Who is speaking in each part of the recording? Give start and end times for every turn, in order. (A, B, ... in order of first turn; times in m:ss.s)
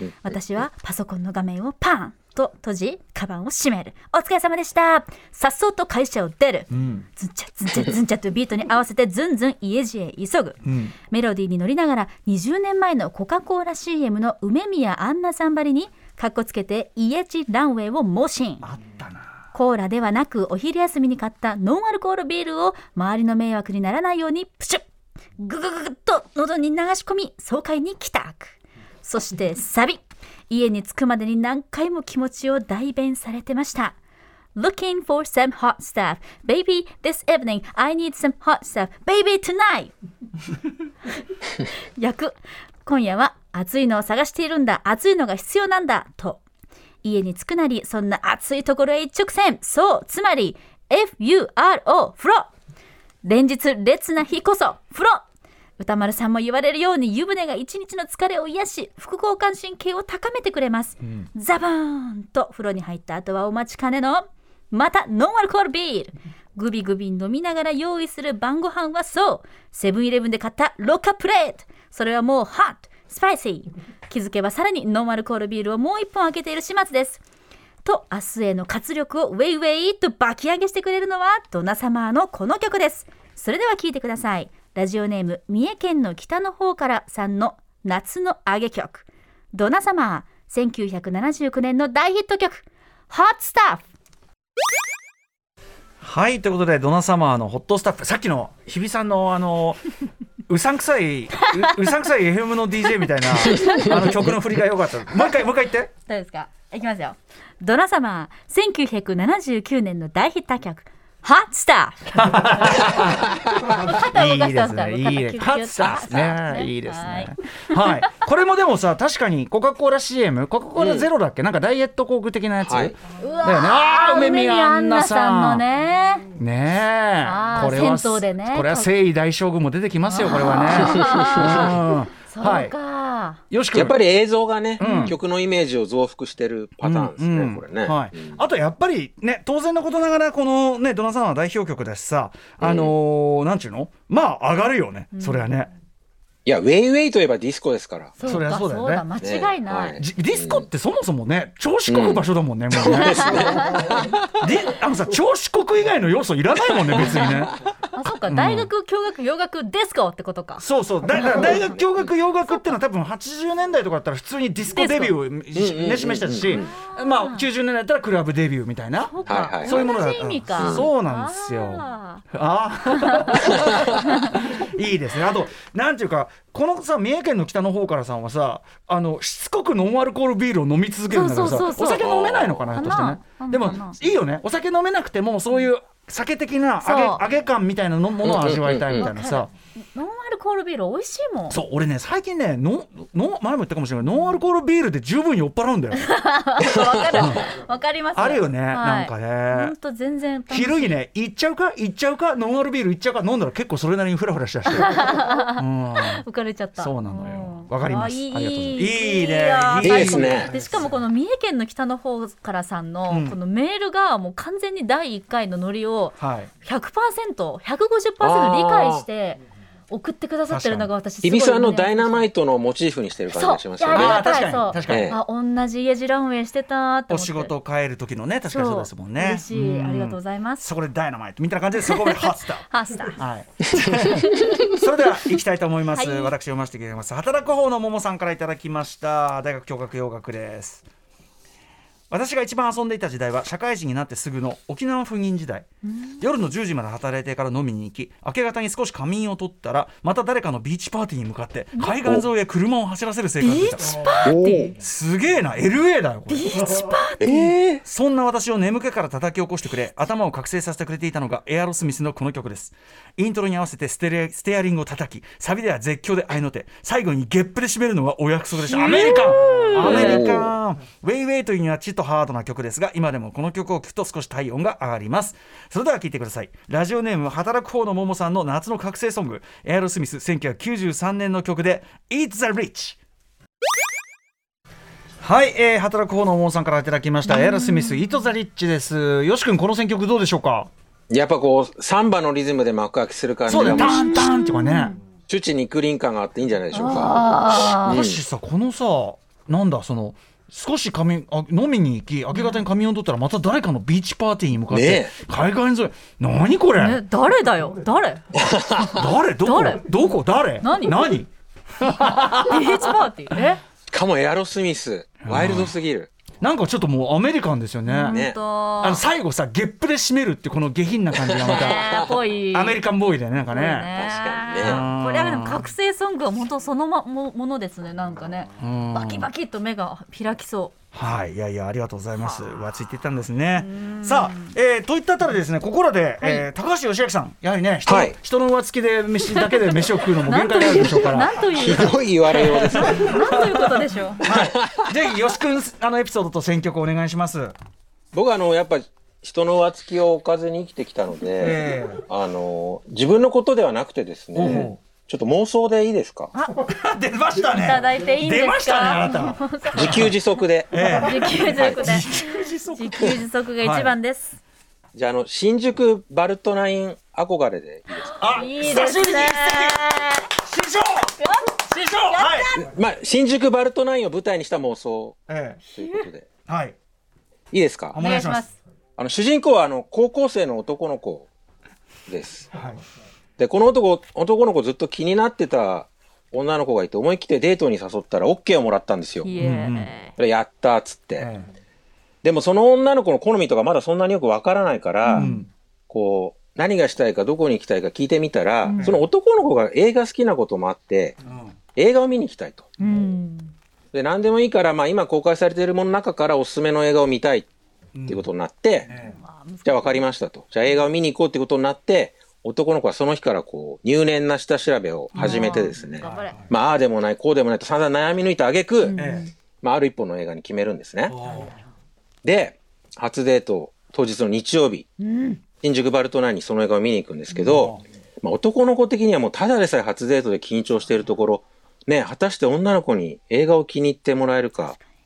0:00.2-0:18.6 A
0:06.7-0:07.0 B
0:10.6-0:10.9 B
0:18.6-0:19.3 B
0:19.5-0:24.8 A
0:25.4-0:34.0 A
0:34.6-0:39.9 A
0:42.0-0:46.4 A
0:47.0-0:52.5 A
0:53.2-0:55.2 A
0:55.8-1:17.2 A
1:17.8-1:33.9 A
1:36.0-1:39.8 B
1:40.5-1:45.9 B
1:41.4-1:41.7 A
1:43.5-1:44.1 A
1:46.1-1:53.0 A
1:52.1-2:05.6 B
1:53.6-1:57.9 A
2:00.8-2:01.1 C
2:02.6-2:03.0 C
2:03.2-2:06.3 A
2:06.3-2:12.7 B
2:07.2-2:08.9 A
2:10.1-2:13.4 A
2:11.0-2:11.6 C
2:13.5-2:14.0 B
2:13.7-2:18.4 C
2:14.8-2:15.2 B
2:14.8-2:15.2 A
2:16.8-2:25.7 B
2:22.6-2:22.9 C
2:25.1-2:25.4 A
2:26.5-2:28.2 C
2:28.2-2:30.0 A
2:28.2-2:29.1 B
2:29.2-2:30.6 C
2:30.0-2:37.6 B
2:31.9-2:34.3 C
2:32.9-2:33.9 A
2:36.9-2:37.4 C
2:37.9-2:40.6 A
2:38.3-2:38.7 B
2:40.6-3:09.5 B
2:41.2-2:41.7 A
2:44.7-2:45.2 A
2:45.6-2:46.7 C
2:46.5-2:47.4 A
2:49.0-2:52.2 A
2:49.3-2:49.9 C
2:50.6-2:50.9 C
2:52.9-2:54.4 A
2:53.4-2:54.0 C
3:01.1-3:02.0 A
3:01.9-3:02.8 C
3:02.7-3:04.0 A
3:06.8-3:07.2 A
3:08.2-3:09.1 C
3:08.9-3:11.6 A
3:11.5-3:16.0 B
3:15.9-3:21.0 A
3:16.7-3:17.0 C
3:17.1-3:17.5 B
3:18.2-3:19.7 B
3:20.5-3:26.2 B
3:24.7-3:42.3 A
3:26.8-3:30.9 B
3:29.8-3:30.5 C
3:33.1-3:33.4 B
3:36.2-3:36.5 B
3:38.2-3:39.0 C
3:40.5-3:40.9 B
3:41.2-3:45.2 C
3:43.3-3:47.5 A
3:43.9-3:45.2 B
3:47.1-4:00.8 B
3:48.5-3:50.7 A
3:51.8-3:53.2 A
3:54.1-3:54.6 A
3:55.9-3:56.3 A
4:02.1-4:05.7 B
4:05.9-4:06.2 A
4:06.2-4:17.0 B
4:13.4-4:14.8 A
4:14.2-4:14.7 C
4:16.3-4:17.5 A
4:17.2-4:17.8 C
4:17.8-4:43.0 B
4:28.6-4:30.2 A
4:29.7-4:30.5 C
4:45.2-4:50.7 B
4:47.3-4:48.1 A
4:51.1-4:54.3 C
4:53.5-4:55.0 B
4:53.6-4:55.0 A
4:55.3-4:58.2 C
4:56.7-4:58.0 A
4:57.9-5:07.0 B
5:02.3-5:02.6 A
5:04.7-5:05.1 C
5:06.8-5:08.2 A
5:08.3-5:09.1 C
5:08.8-5:11.3 B
5:09.4-5:09.9 A
5:10.6-5:11.2 A
5:11.8-5:13.0 B
5:11.8-5:13.6 A
5:13.9-5:16.1 C
5:15.2-5:15.7 B
5:16.4-5:18.2 B
5:17.9-5:19.0 A
5:18.1-5:18.4 C
5:18.8-5:21.9 B
5:21.2-5:22.2 C
5:21.5-5:22.8 A
5:22.5-5:23.9 B
5:23.5-5:30.7 A
5:24.0-5:24.8 C
5:24.6-5:25.7 B
5:28.6-5:29.3 B
5:30.9-5:41.4 B
5:33.6-5:34.5 A
5:36.2-5:36.5 A
5:37.9-5:38.2 C
5:39.3-5:44.2 A
5:41.5-5:43.1 C
5:42.6-5:47.5 B
5:44.2-5:44.9 C
5:48.1-5:56.3 C
5:51.4-5:52.0 B
5:54.4-5:54.8 B
5:56.3-5:56.6 A
5:56.6-6:00.1 B
5:57.6-6:00.2 A
5:59.7-6:00.8 C
6:00.7-6:03.9 B
6:00.7-6:04.4 A
6:01.5-6:01.8 C
6:04.9-6:08.5 C
6:08.2-6:12.5 B
6:08.2-6:10.3 A
6:11.2-6:12.7 A
6:12.6-6:15.2 C
6:15.3-6:15.6 B
6:15.7-6:16.3 C
6:15.8-6:16.0 A
6:16.5-6:16.8 B
6:17.5-6:18.0 C
6:17.9-6:18.4 B
6:18.0-6:18.6 A
6:19.0-6:21.3 C
6:22.1-6:22.5 C
6:22.5-6:22.8 B
6:23.4-6:29.3 C
6:29.2-6:30.2 A
6:29.4-6:29.9 B
6:30.2-6:31.3 C
6:31.2-6:31.5 B
6:32.2-6:35.3 C
6:35.1-6:35.4 A
6:35.1-6:35.5 B
6:35.9-6:41.2 C
6:38.6-6:39.0 A
6:38.8-6:39.1 B
6:41.3-6:41.5 B
6:41.8-6:42.7 C
6:42.8-6:43.5 A
6:43.9-6:47.5 C
6:48.0-6:48.2 B
6:48.1-6:48.9 C
6:48.9-6:49.2 B
6:48.9-6:50.0 A
6:49.6-6:59.0 C
6:55.2-6:56.5 B
6:55.2-6:56.4 A
6:58.8-6:59.3 A
6:59.0-6:59.3 B
6:59.6-7:01.2 C
7:01.1-7:01.5 B
7:01.3-7:01.6 A
7:02.2-7:04.9 C
7:05.0-7:05.4 A
7:05.6-7:14.8 C
7:07.4-7:07.8 B